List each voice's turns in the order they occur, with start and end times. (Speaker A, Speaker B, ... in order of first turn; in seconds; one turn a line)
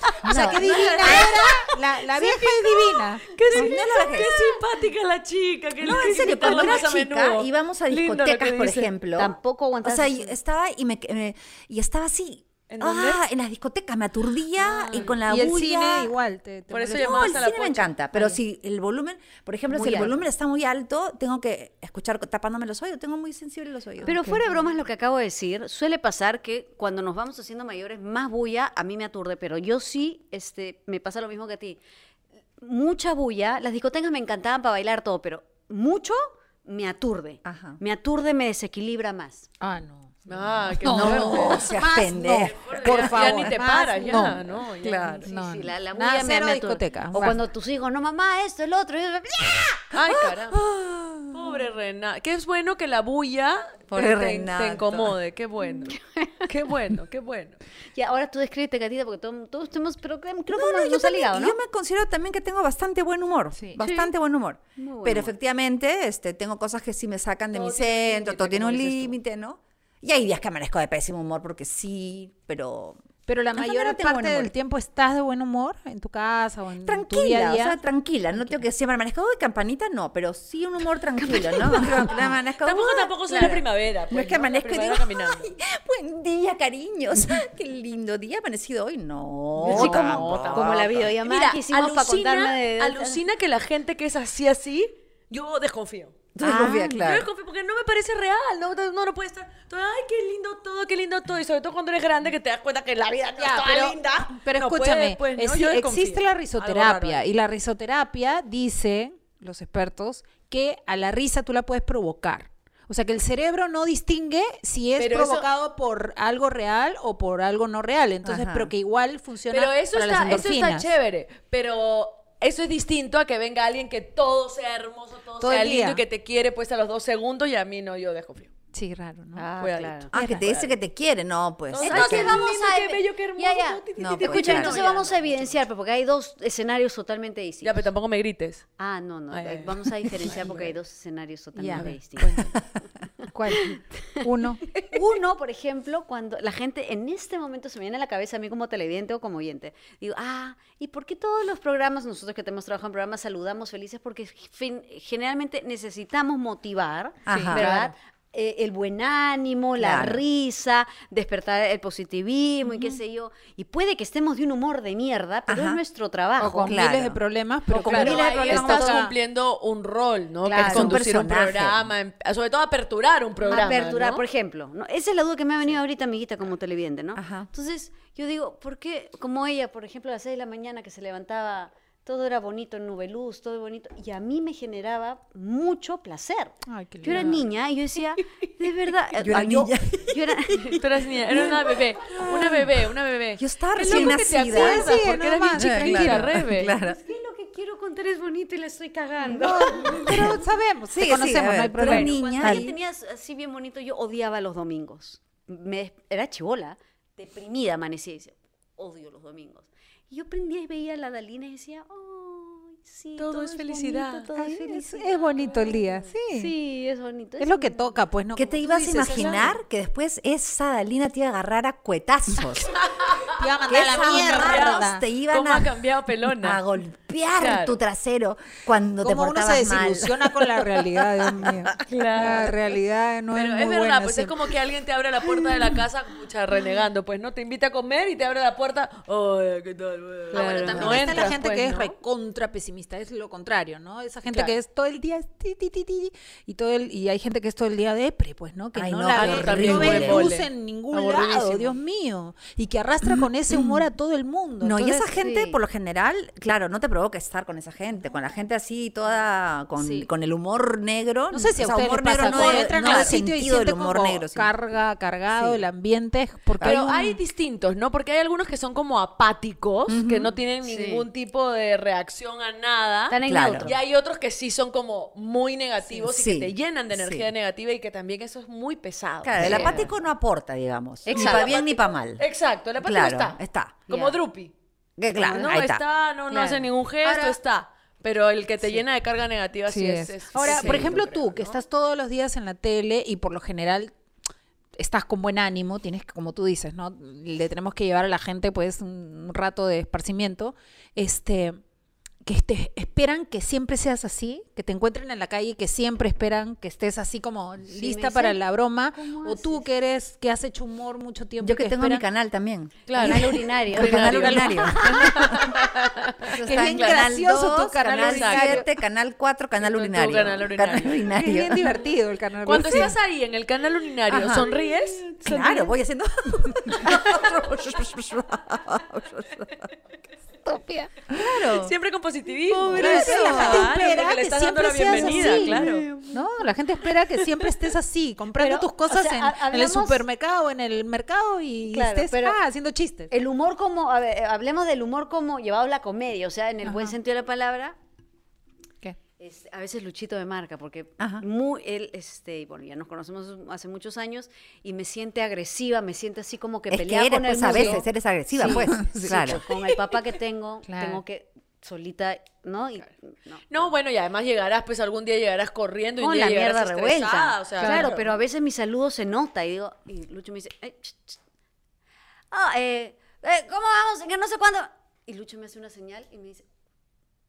Speaker A: 0.2-1.3
Speaker B: 0.2-3.2
Speaker C: 0.4-8.9
Speaker D: 0.6-1.7
Speaker A: 3.5-4.4
Speaker D: 3.5-3.9
Speaker A: 5.8-16.1
Speaker D: 6.1-6.7
Speaker D: 9.2-10.3
Speaker C: 12.7-13.2
Speaker D: 14.8-15.1
Speaker C: 14.9-15.2
Speaker B: 15.0-17.4
Speaker C: 16.7-17.9
Speaker A: 17.0-24.1
Speaker D: 19.7-20.1
Speaker B: 19.9-20.1
Speaker D: 24.0-31.8
Speaker B: 24.1-24.4
Speaker D: 32.6-39.5
Speaker A: 37.5-37.8
Speaker B: 39.6-40.1
Speaker C: 40.3-45.3
Speaker B: 40.8-44.4
Speaker A: 40.9-43.6
Speaker D: 41.2-41.6
Speaker D: 43.9-44.3
Speaker A: 44.8-45.3
Speaker D: 45.2-49.9
Speaker B: 45.3-47.4
Speaker C: 49.9-50.7
Speaker A: 50.1-51.4
Speaker C: 51.3-57.6
Speaker A: 53.9-55.2
Speaker D: 55.9-56.5
Speaker D: 58.0-61.6
Speaker A: 60.5-73.0
Speaker D: 63.8-64.1
Speaker D: 64.8-65.3
Speaker C: 67.5-69.2
Speaker B: 73.3-77.8
Speaker A: 73.5-74.5
Speaker A: 76.8-91.1
Speaker B: 78.3-78.6
Speaker D: 81.2-82.1
Speaker C: 82.6-85.5
Speaker C: 89.6-96.3
Speaker D: 89.6-93.2
Speaker D: 96.4-97.0
Speaker A: 96.4-97.3
Speaker C: 96.8-107.2
Speaker B: 103.4-120.9
Speaker C: 115.0-115.5
Speaker A: 118.2-118.7
Speaker C: 119.5-128.5
Speaker B: 125.4-126.0
Speaker B: 128.7-129.5
Speaker D: 129.4-130.1
Speaker C: 129.6-130.8
Speaker A: 130.1-132.4
Speaker B: 130.1-130.4
Speaker C: 131.7-135.6
Speaker D: 131.8-137.9
Speaker A: 134.0-134.9
Speaker C: 137.6-138.7
Speaker D: 138.8-142.5
Speaker C: 139.3-140.8
Speaker B: 141.6-142.0
Speaker C: 141.8-142.6
Speaker B: 143.3-144.6
Speaker D: 143.5-144.2
Speaker D: 144.8-166.8
Speaker A: 157.3-157.7
Speaker B: 157.3-157.9
Speaker A: 159.8-160.2
Speaker A: 165.5-165.8
Speaker B: 166.4-169.1
Speaker A: 166.7-167.2
Speaker C: 167.7-174.2
Speaker D: 167.7-169.0
Speaker A: 167.8-169.0
Speaker D: 170.4-171.0
Speaker A: 170.6-171.9
Speaker D: 173.4-190.8
Speaker A: 177.2-177.5
Speaker B: 186.7-187.4
Speaker C: 187.1-187.4
Speaker A: 189.2-192.8
Speaker C: 190.7-196.8
Speaker A: 193.4-194.9
Speaker B: 193.8-196.4
Speaker A: 195.5-197.0
Speaker D: 196.8-200.4
Speaker B: 199.3-202.7
Speaker A: 199.9-200.4
Speaker A: 200.9-202.7
Speaker D: 201.8-218.0
Speaker C: 213.2-214.3
Speaker B: 214.4-216.5
Speaker B: 217.4-219.6
Speaker A: 218.3-222.8
Speaker C: 222.9-226.6
Speaker B: 223.3-225.0
Speaker A: 223.7-225.8
Speaker A: 226.3-231.7
Speaker C: 227.4-227.8
Speaker B: 229.0-234.3
Speaker C: 231.9-232.8
Speaker C: 233.3-241.9
Speaker D: 240.3-241.3
Speaker B: 240.7-255.1
Speaker C: 244.3-244.6
Speaker A: 248.8-250.3
Speaker C: 249.1-251.8
Speaker A: 253.0-253.8
Speaker A: 254.6-264.5
Speaker D: 255.1-255.6
Speaker B: 259.8-260.1
Speaker B: 261.3-267.2
Speaker C: 262.2-263.2
Speaker A: 265.3-265.6
Speaker C: 266.6-279.8
Speaker A: 269.9-270.3
Speaker D: 270.6-271.1
Speaker D: 273.1-273.8
Speaker A: 273.3-273.7
Speaker A: 276.1-277.3
Speaker A: 279.2-282.2
Speaker D: 279.4-279.9
Speaker D: 281.1-281.5
Speaker C: 281.1-284.5
Speaker A: 282.8-283.8
Speaker D: 283.9-284.2
Speaker A: 285.0-285.8
Speaker D: 285.1-285.6
Speaker C: 285.3-291.6
Speaker D: 286.3-287.3
Speaker B: 289.7-293.9
Speaker D: 290.4-290.9
Speaker A: 290.4-290.9
Speaker B: 294.8-301.6
Speaker B: 302.2-312.0
Speaker D: 307.7-308.4
Speaker D: 308.9-309.7
Speaker A: 311.4-315.6
Speaker C: 312.9-317.1
Speaker D: 312.9-315.1
Speaker B: 313.9-315.3
Speaker A: 316.3-321.7
Speaker B: 316.3-318.6
Speaker C: 317.9-318.6
Speaker C: 319.6-321.1
Speaker B: 321.1-322.9
Speaker C: 322.4-325.1
Speaker A: 324.1-324.5
Speaker A: 325.2-329.7
Speaker B: 330.4-330.9
Speaker A: 331.1-331.7
Speaker C: 331.4-335.9
Speaker A: 332.7-333.9
Speaker B: 332.7-343.1
Speaker D: 334.9-336.2
Speaker D: 338.4-340.0
Speaker D: 341.7-342.4
Speaker D: 343.1-347.8
Speaker B: 346.6-346.9
Speaker D: 349.2-363.7
Speaker A: 351.0-351.2
Speaker A: 356.7-359.4
Speaker B: 357.5-357.8
Speaker B: 358.4-359.4
Speaker B: 360.7-361.0
Speaker C: 363.5-368.0
Speaker D: 366.0-371.2
Speaker B: 367.6-368.0
Speaker D: 372.3-376.4